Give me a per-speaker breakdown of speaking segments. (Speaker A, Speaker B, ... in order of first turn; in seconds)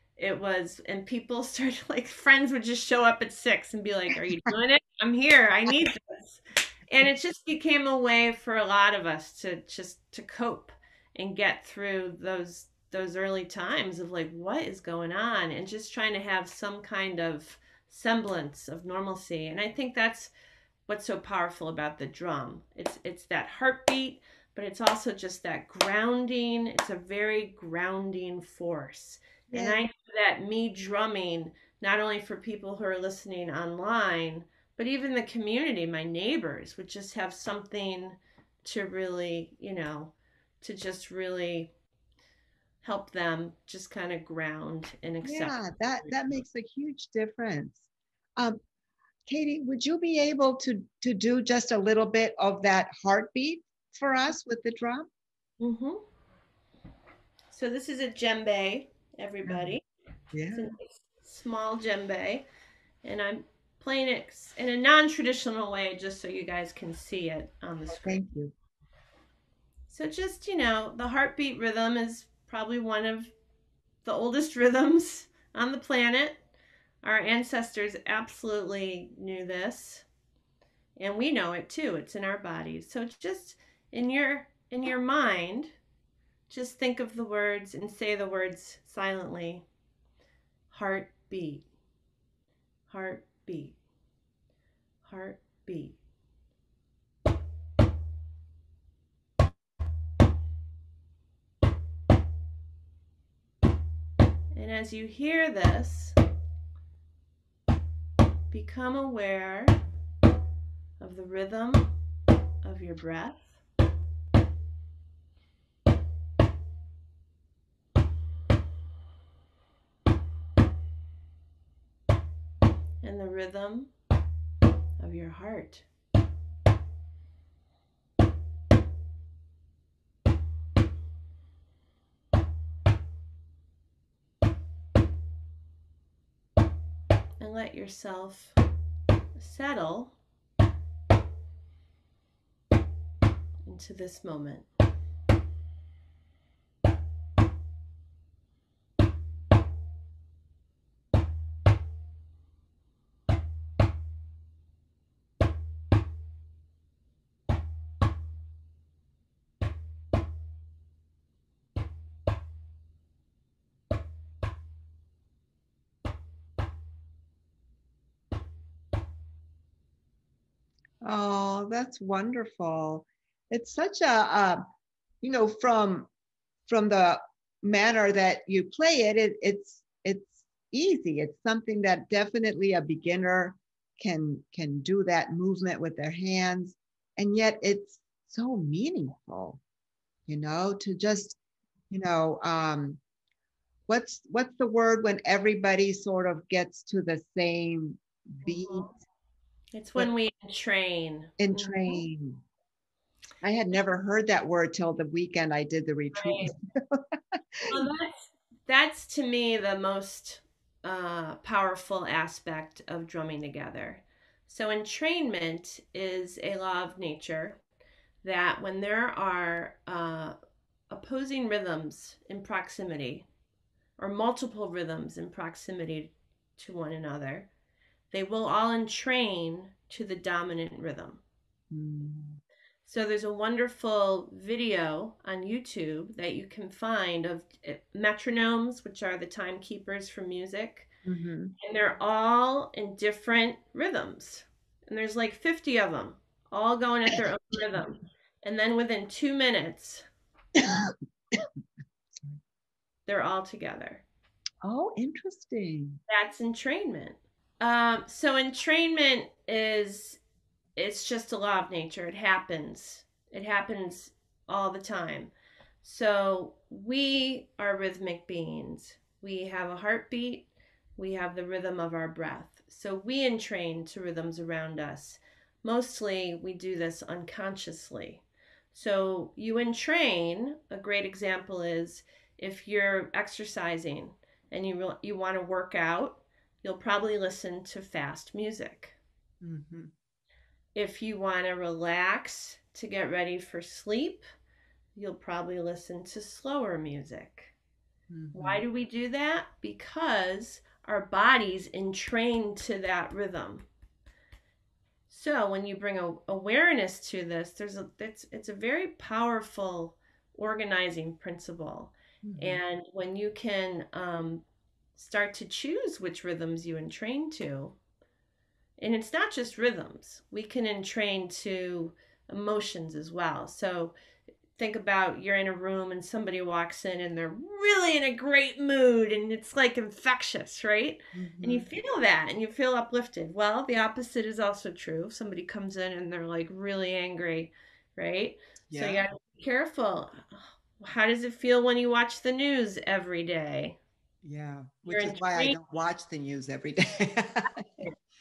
Speaker A: 0.2-20.3, 20.9-41.7, 42.8-46.1, 55.6-56.0, 57.5-59.8, 60.5-62.5, 63.0-68.2, 69.9-73.3, 74.0-76.4, 77.0-80.0, 81.0-85.8, 86.5-89.7, 90.7-91.7, 92.9-93.8, 95.0-96.0, 104.5-106.2, 108.5-109.8, 111.0-111.9, 112.6-113.5, 123.0-123.9, 125.0-125.9, 137.4-138.6, 139.4-140.2, 143.7-144.7, 198.4-198.9, 199.7-202.1, 206.1-206.5, 207.7-217.6, 218.2-220.3, 220.9-223.3, 224.0-227.5, 228.1-231.2, 232.8-240.9, 241.6-250.1, 253.1-254.0, 256.1-260.2, 260.8-265.3, 265.8-289.0, 290.8-294.2, 294.9-297.5, 298.3-303.7, 305.1-314.4, 315.0-317.8, 318.8-323.9, 324.6-343.8, 344.9-345.6
Speaker B: 29.5-29.8, 45.2-48.6, 49.3-55.1, 59.5-59.8, 60.3-60.7, 67.9-68.5, 171.0-174.6, 175.2-176.1, 176.7-189.6, 190.3-191.4, 191.9-193.0, 193.9-198.9, 201.4-202.4, 203.4-207.8, 231.7-232.4, 241.1-241.5, 250.6-251.5, 254.6-256.0, 289.4-289.9, 298.1-298.6, 312.2-312.6, 331.1-331.7, 338.7-339.0, 344.2-347.9